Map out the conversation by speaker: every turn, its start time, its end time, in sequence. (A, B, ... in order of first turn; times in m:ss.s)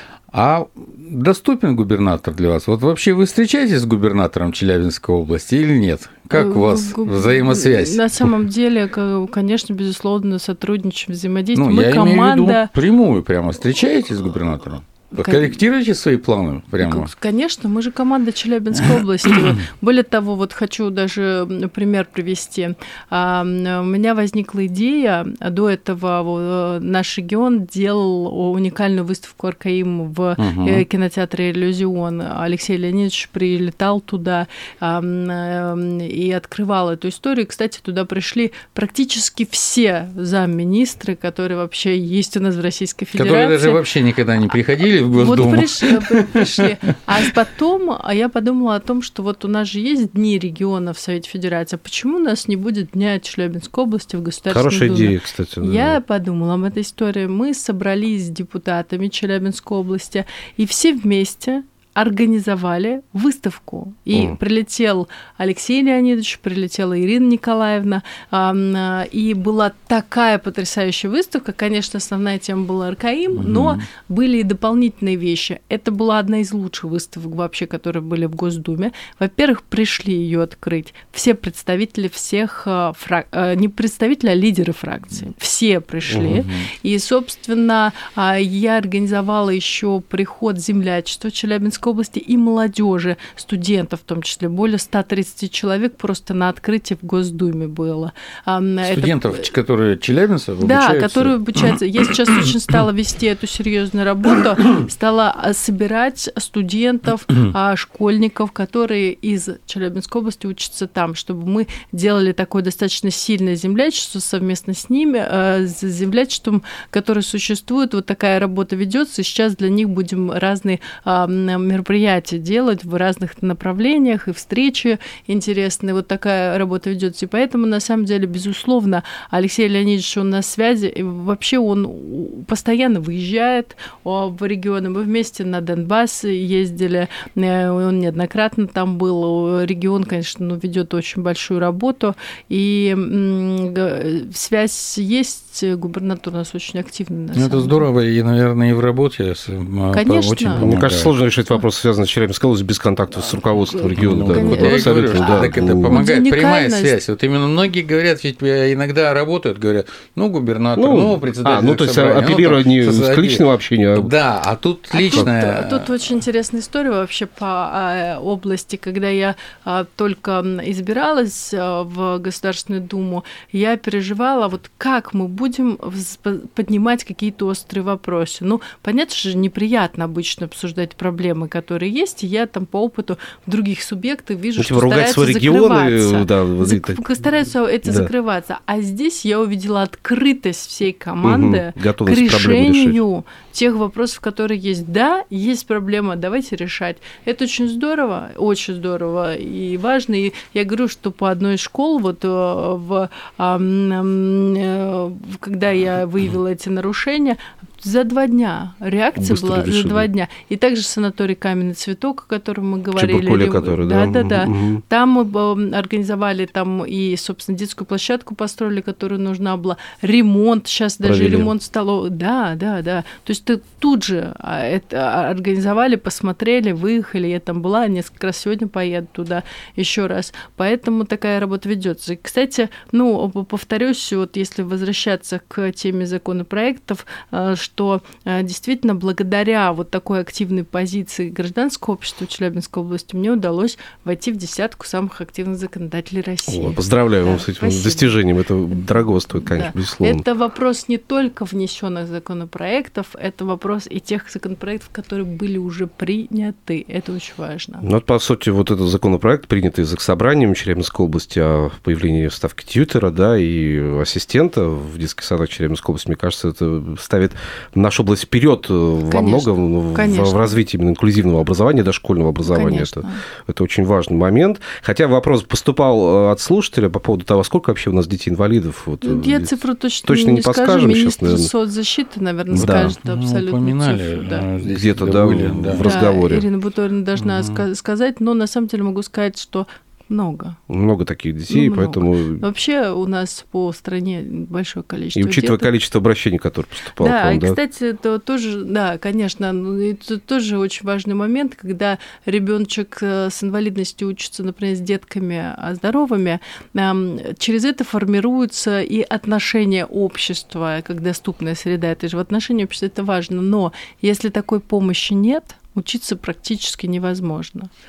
0:00.3-0:08.3 A
0:06.3-0:12.7 B
0:11.5-0:17.1 A
0:15.2-0:15.6 B
0:16.8-0:43.8 B
0:18.8-0:19.6 A
0:30.4-0:30.8 A
0:43.2-0:46.6 A
0:45.2-1:39.4 B
0:54.5-0:56.0 C
1:13.3-1:13.8 A
1:26.2-1:26.7 A
1:38.8-1:41.8 A
1:40.6-2:27.8 B
2:27.3-2:31.1 A
2:29.9-2:30.7 B
2:30.6-2:36.0 C
2:33.2-2:37.0 B
2:33.9-2:43.4 A
2:40.8-2:44.1 C
2:43.9-2:45.9 A
2:44.9-4:08.2 B
3:04.6-3:07.0 C
3:07.8-3:08.1 C
3:11.2-3:13.0 C
3:29.2-3:30.1 C
3:32.9-3:34.8 C
3:41.0-3:41.5 C
4:06.5-4:10.2 C
4:08.7-4:17.8 B
4:17.8-4:41.5 C
4:29.1-4:30.6 B
4:32.4-4:33.2 B
4:39.0-4:44.4 B
4:42.5-4:46.0 A
4:42.5-4:42.9 C
4:44.6-4:46.4 C
4:45.8-4:50.6 B
4:47.1-4:47.6 A
4:50.7-4:52.4 C
4:51.5-4:55.7 B
4:55.1-4:57.6 C
4:57.0-5:17.7 B